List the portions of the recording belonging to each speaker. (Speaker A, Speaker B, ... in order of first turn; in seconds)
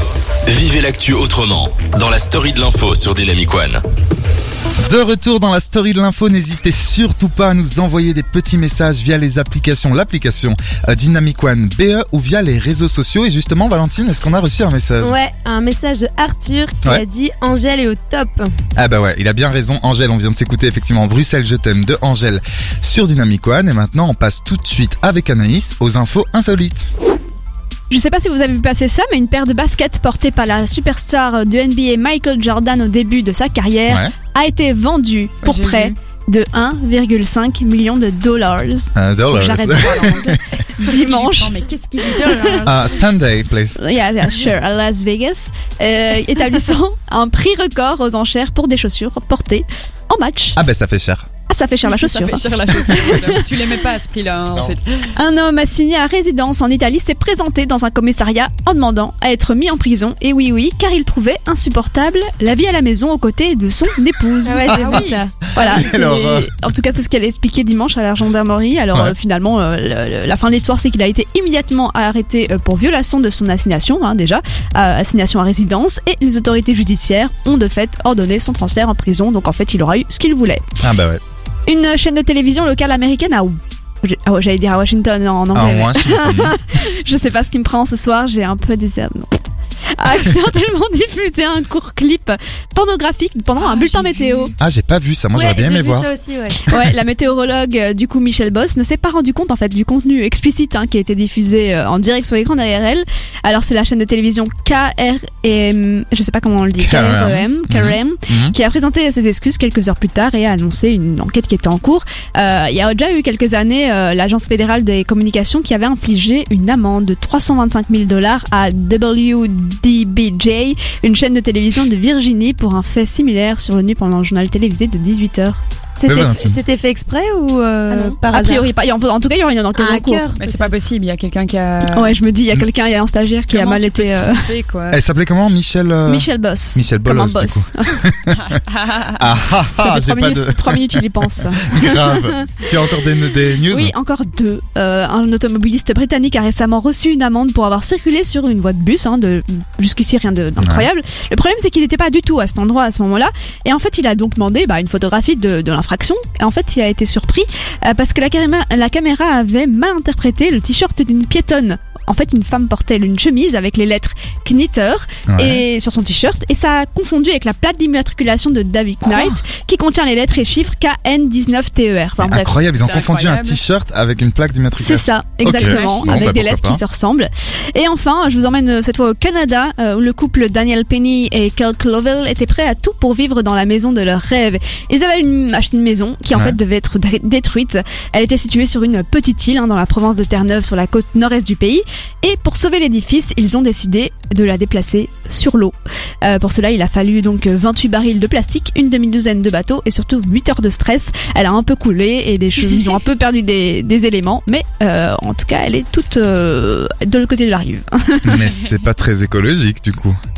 Speaker A: 0.5-3.8
Speaker B: 4.8-15.2, 18.8-26.9, 33.9-34.1, 39.0-40.4, 42.6-43.8, 50.5-51.2, 65.5-66.5, 80.8-81.2, 85.5-86.5, 94.6-96.1, 106.8-108.5, 126.0-126.6, 134.9-138.6, 139.1-141.1, 141.6-143.9, 150.6-150.9, 165.3-165.6, 169.1-169.4, 172.2-176.8, 186.3-186.6, 208.2-210.2
Speaker C: 15.0-18.5, 64.4-65.2, 95.3-96.6, 126.0-128.7, 129.7-130.8
Speaker D: 27.9-41.5, 42.0-42.8, 43.8-50.6, 51.5-53.7, 55.1-80.7, 81.7-89.4, 90.0-94.5, 96.6-125.6, 127.9-130.3, 131.9-134.5, 136.1-138.1, 139.6-142.6, 143.6-172.6, 174.7-208.6
Speaker E: 35.4-35.9, 40.8-42.9, 51.8-55.1, 64.7-65.2, 93.6-94.5, 130.3-132.2, 133.5-135.0, 138.4-139.1, 172.8-173.6, 175.4-176.2